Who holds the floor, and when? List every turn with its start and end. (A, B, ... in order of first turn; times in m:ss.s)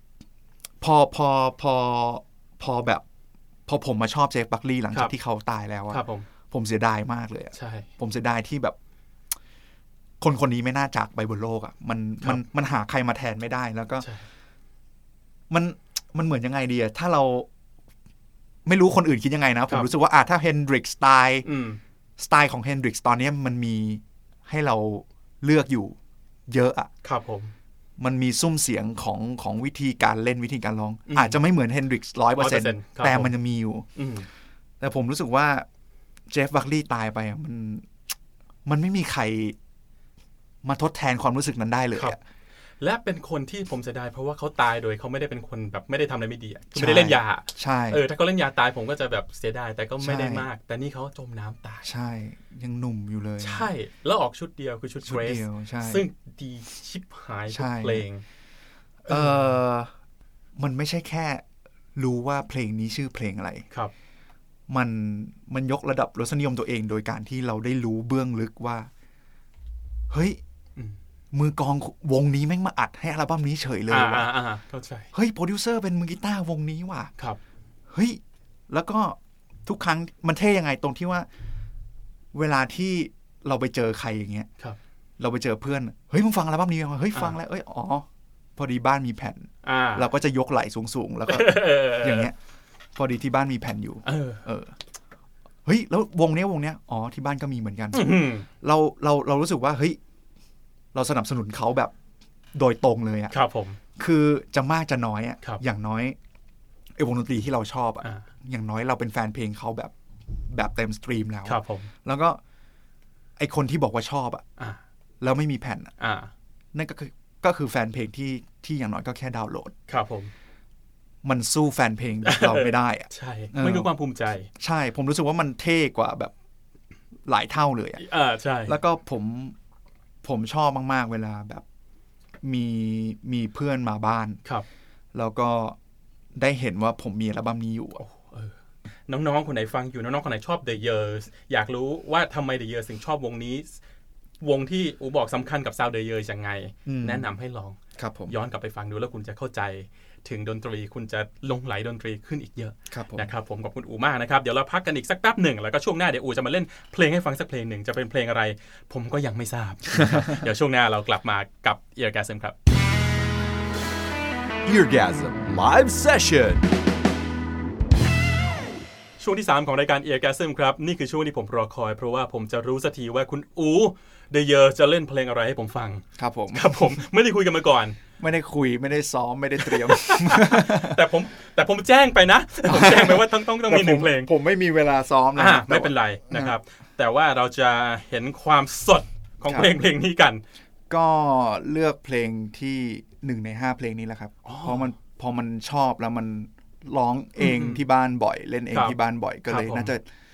0:00.8-0:03.0 A
0:03.7-0:08.8 A
0:05.9-0:06.3 B
0:07.6-0:07.9 B
0:10.2-0:14.1 A
0:15.5-0:17.5 A
0:18.7-0:21.5 A
0:21.4-0:21.8 B
0:22.2-0:26.0 A
0:26.5-0:26.9 A
0:27.0-0:27.5 B
0:28.0-0:33.9 A
0:31.1-0:31.4 B
0:32.4-0:33.4 B
0:34.0-0:34.3 B
0:34.8-0:35.7 A
0:36.3-0:37.9 A
0:38.6-0:39.6 A
0:40.6-0:42.2 A
0:42.8-0:51.9 B
0:46.7-0:48.0 A
0:50.0-0:50.5 A
0:51.8-0:53.7 A
0:53.4-0:58.2 B
0:55.0-0:56.0 A
0:57.5-0:58.1 A
0:59.1-0:59.6 B
0:59.1-0:59.9 A
1:00.6-1:01.4 A
1:02.0-1:03.7 A
1:04.7-1:08.9 A
1:10.1-1:10.4 A
1:11.3-1:14.3 A
1:13.9-1:15.1 B
1:15.1-1:17.1 A
1:17.9-1:21.3 A
1:22.3-1:24.5 A
1:25.2-1:32.4 A
1:29.6-1:30.1 B
1:31.3-1:32.3 B
1:33.0-1:34.8 A
1:34.0-1:34.4 B
1:35.6-1:40.0 A
1:37.9-1:38.5 B
1:40.9-1:41.9 A
1:42.5-1:43.4 A
1:43.3-1:43.8 B
1:44.0-1:46.2 A
1:47.0-1:49.9 A
1:48.0-1:48.3 B
1:50.5-1:52.4 A
1:51.4-1:51.9 B
1:53.4-1:54.4 A
1:55.2-1:55.9 A
1:56.0-1:56.3 B
1:56.7-1:59.7 A
1:59.9-2:00.3 B
2:01.2-2:03.9 A
2:02.2-2:04.5 B
2:04.6-2:06.3 A
2:07.3-2:08.0 A
2:08.0-2:08.8 B
2:08.7-2:09.6 A
2:10.2-2:11.6 A
2:12.4-2:14.4 A
2:15.1-2:15.8 A
2:16.4-2:18.0 A
2:18.0-2:18.5 B
2:19.1-2:23.8 B
2:24.4-2:27.8 B
2:26.8-2:27.3 A
2:28.0-2:28.3 A
2:28.3-2:42.6 B
2:32.9-2:33.3 A
2:40.0-2:40.4 A
2:44.6-2:46.6 C
2:49.2-2:58.0 B
2:56.2-2:57.0 A
2:58.2-3:01.0 A
2:59.6-3:04.3 B
3:02.6-3:06.6 A
3:05.4-3:10.4 B
3:09.4-3:09.8 A
3:10.9-3:20.0 A
3:14.4-3:15.0 B
3:17.4-3:17.8 B
3:19.5-3:19.9 B